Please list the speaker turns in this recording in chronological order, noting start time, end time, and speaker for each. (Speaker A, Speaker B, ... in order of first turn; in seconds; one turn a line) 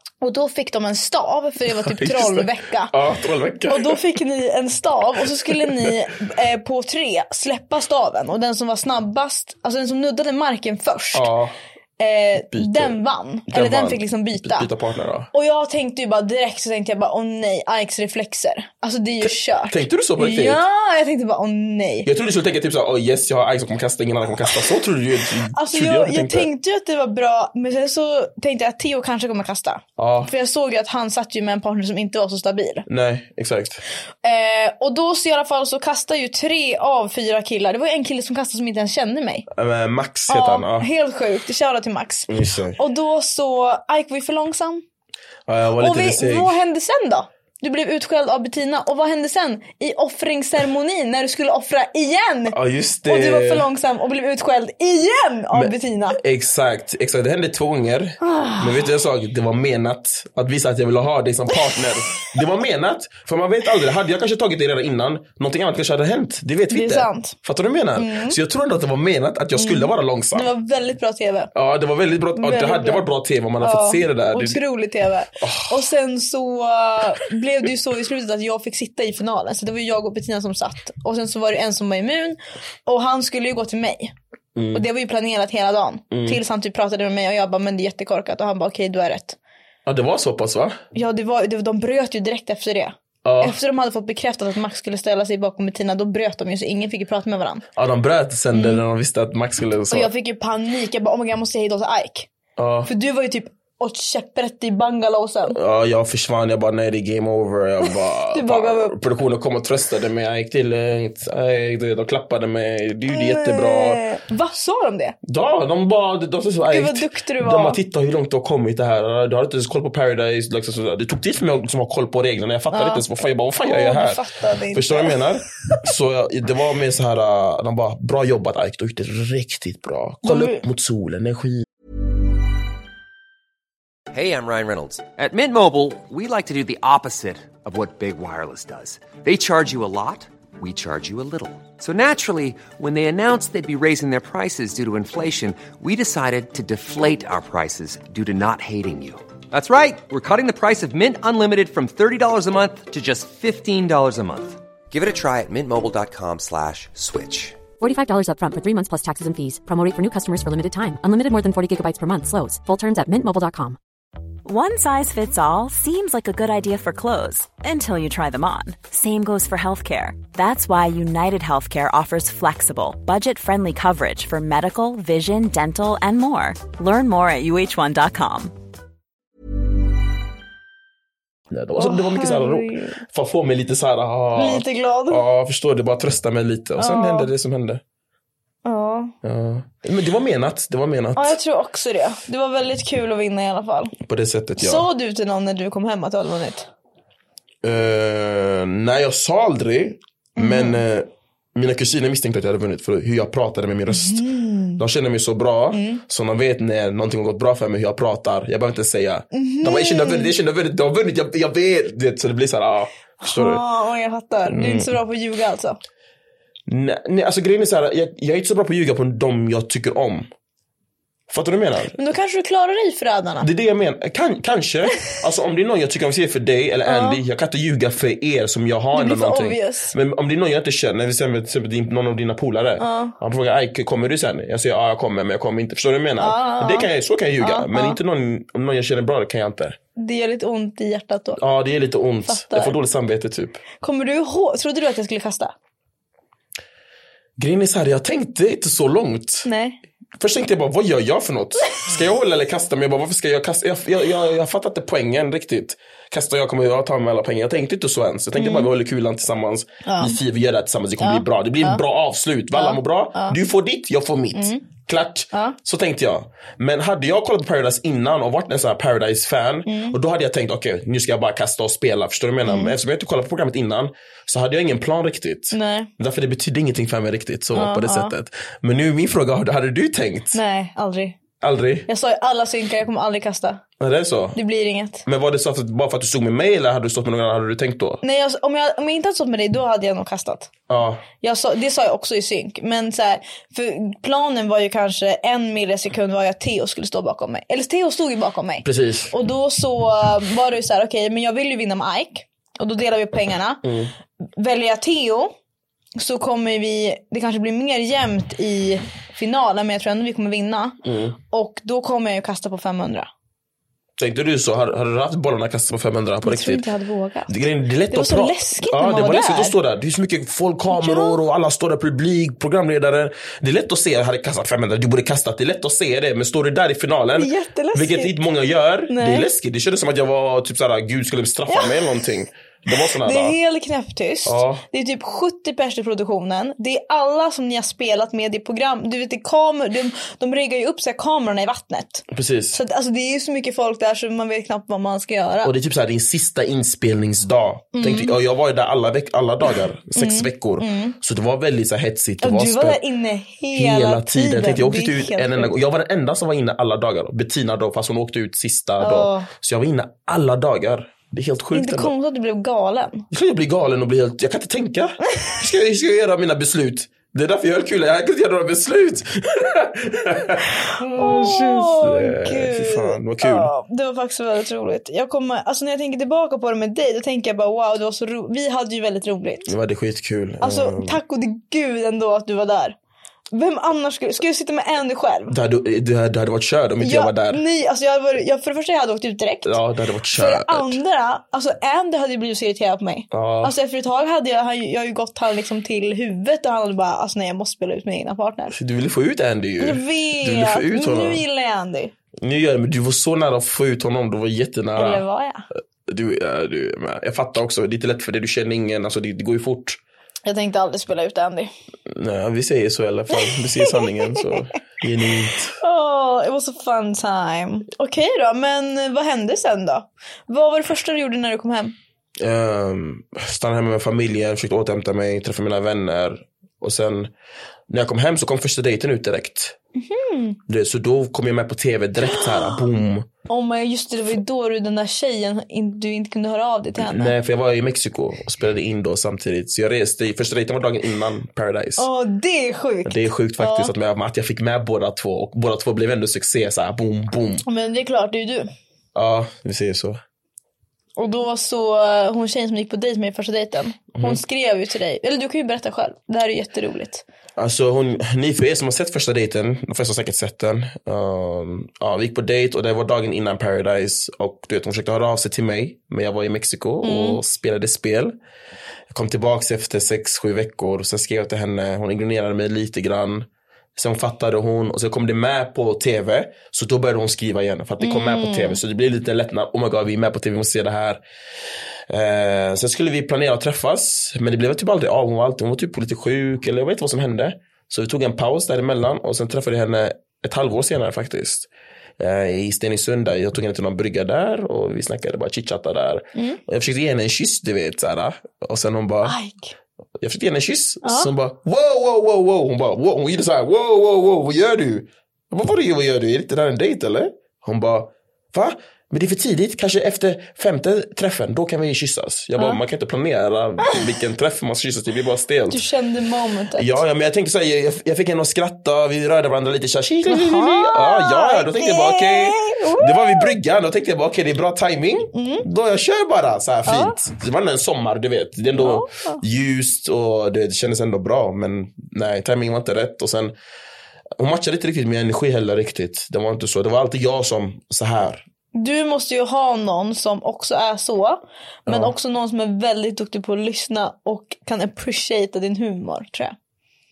Speaker A: 0.2-3.0
Speaker B: 1.7-4.0
Speaker A: 3.7-11.3
Speaker B: 5.4-6.0
Speaker B: 11.1-11.6
Speaker A: 12.0-14.7
Speaker B: 12.5-13.0
Speaker B: 13.5-15.3
Speaker A: 15.3-22.1
Speaker B: 19.2-20.6
Speaker B: 22.1-26.5
Speaker A: 25.5-32.9
Speaker B: 30.0-30.3
Speaker B: 32.9-33.8
Speaker A: 34.2-39.5
Speaker B: 39.5-40.9
Speaker A: 40.3-44.8
Speaker B: 42.3-42.8
Speaker B: 45.5-46.6
Speaker A: 45.8-56.2
Speaker B: 52.5-53.7
Speaker B: 55.5-70.5
Speaker A: 58.2-58.9
Speaker A: 61.5-61.8
Speaker A: 66.7-67.4
Speaker A: 68.0-68.4
Speaker A: 69.6-71.5
Speaker B: 71.5-74.6
Speaker A: 72.3-73.0
Speaker A: 73.6-84.2
Speaker B: 75.4-75.8
Speaker B: 84.6-84.8
Speaker A: 84.7-89.4
Speaker B: 86.1-86.4
Speaker B: 89.9-90.8
Speaker A: 90.9-97.7
Speaker B: 93.2-93.6
Speaker B: 97.8-100.1
Speaker A: 98.5-98.8
Speaker A: 99.9-102.3
Speaker B: 102.6-102.9
Speaker A: 102.9-105.6
Speaker B: 105.5-114.0
Speaker A: 108.3-109.0
Speaker A: 113.1-115.2
Speaker B: 115.2-131.7
Speaker A: 116.7-117.8
Speaker A: 122.7-123.0
Speaker A: 123.6-125.2
Speaker A: 130.2-130.7
Speaker C: 134.1-157.6
Speaker D: 157.8-163.8
Speaker E: 164.4-178.5
Speaker B: 181.5-187.8
Speaker A: 181.8-183.0
Speaker A: 184.3-185.2
Speaker A: 186.8-187.3
Speaker A: 188.7-189.2
Speaker B: 189.2-191.4
Speaker A: 191.2-193.9
Speaker B: 194.0-194.9
Speaker A: 194.6-196.7
Speaker B: 197.6-204.2
Speaker A: 200.4-200.8
Speaker A: 203.9-204.8
Speaker B: 204.8-213.6
Speaker A: 205.7-206.0
Speaker A: 209.3-210.3
Speaker A: 213.2-215.8
Speaker B: 214.5-215.0
Speaker B: 216.7-220.3
Speaker B: 221.3-222.0
Speaker A: 221.9-223.5
Speaker B: 223.4-239.8
Speaker A: 226.9-227.2
Speaker A: 228.9-229.9
Speaker A: 232.8-233.2
Speaker A: 236.2-236.9
Speaker A: 237.4-238.0
Speaker A: 240.0-241.4
Speaker B: 241.4-243.6
Speaker A: 242.3-242.8
Speaker A: 243.8-245.6
Speaker B: 247.4-249.5
Speaker A: 249.4-249.8
Speaker B: 250.2-280.4
Speaker A: 258.4-258.7
Speaker A: 259.9-260.2
Speaker A: 261.0-261.8
Speaker A: 262.5-263.4
Speaker A: 264.4-264.6
Speaker A: 265.3-265.6
Speaker A: 269.7-270.0
Speaker A: 272.4-272.7
Speaker A: 275.5-275.9
Speaker A: 277.5-278.1
Speaker A: 280.3-281.2
Speaker B: 281.4-281.9
Speaker A: 281.9-283.6
Speaker B: 283.8-284.4
Speaker A: 284.4-285.1
Speaker B: 285.1-288.0
Speaker A: 288.0-290.5
Speaker B: 290.7-291.1
Speaker A: 291.2-303.7
Speaker B: 298.6-299.1
Speaker B: 303.6-303.9
Speaker A: 304.4-305.3
Speaker A: 306.0-313.1
Speaker B: 310.8-311.2
Speaker B: 314.0-316.6
Speaker A: 316.2-319.6
Speaker B: 317.3-333.4
Speaker A: 320.7-321.2
Speaker A: 327.2-328.2
Speaker A: 328.9-329.3
Speaker A: 331.5-332.0
Speaker A: 332.8-345.5
Speaker B: 334.2-334.6
Speaker B: 342.1-342.6
Speaker B: 345.4-352.8
Speaker A: 347.7-348.2
Speaker A: 350.0-351.0
Speaker A: 352.2-355.5
Speaker B: 353.5-361.9
Speaker A: 358.8-359.3
Speaker A: 361.5-363.1
Speaker B: 363.1-373.5
Speaker A: 370.7-379.5
Speaker B: 379.5-381.0
Speaker A: 380.4-382.8
Speaker A: 383.3-385.4
Speaker B: 385.3-387.4
Speaker A: 386.8-389.6
Speaker B: 389.4-390.8
Speaker A: 390.1-398.6
Speaker B: 393.1-393.6
Speaker B: 398.5-401.2
Speaker A: 399.6-401.9
Speaker B: 402.2-405.1
Speaker A: 404.8-405.5
Speaker B: 405.9-409.8
Speaker A: 410.2-411.5
Speaker B: 411.9-415.6
Speaker A: 413.2-414.3
Speaker A: 415.6-421.8
Speaker B: 422.2-427.1
Speaker B: 427.7-429.6
Speaker A: 429.8-430.4
Speaker B: 430.5-433.1
Speaker A: 432.1-432.6
Speaker A: 433.3-437.1
Speaker B: 436.8-441.9
Speaker A: 441.8-443.7
Speaker B: 442.9-447.4
Speaker A: 447.5-448.5
Speaker B: 448.9-450.0
Speaker A: 451.0-457.0
Speaker B: 453.9-454.2
Speaker B: 457.4-468.1
Speaker A: 466.8-467.2
Speaker B: 468.9-481.0
Speaker A: 477.8-478.6
Speaker B: 481.9-499.2
Speaker A: 496.1-496.4
Speaker A: 499.0-499.6
Speaker B: 500.0-515.6
Speaker A: 500.8-501.1
Speaker A: 512.4-512.6
Speaker A: 515.5-516.8
Speaker B: 516.5-533.4
Speaker A: 520.1-523.3
Speaker A: 525.1-525.5
Speaker A: 526.7-527.0
Speaker A: 528.5-529.2
Speaker B: 534.2-538.2
Speaker A: 538.5-546.4
Speaker B: 541.7-541.9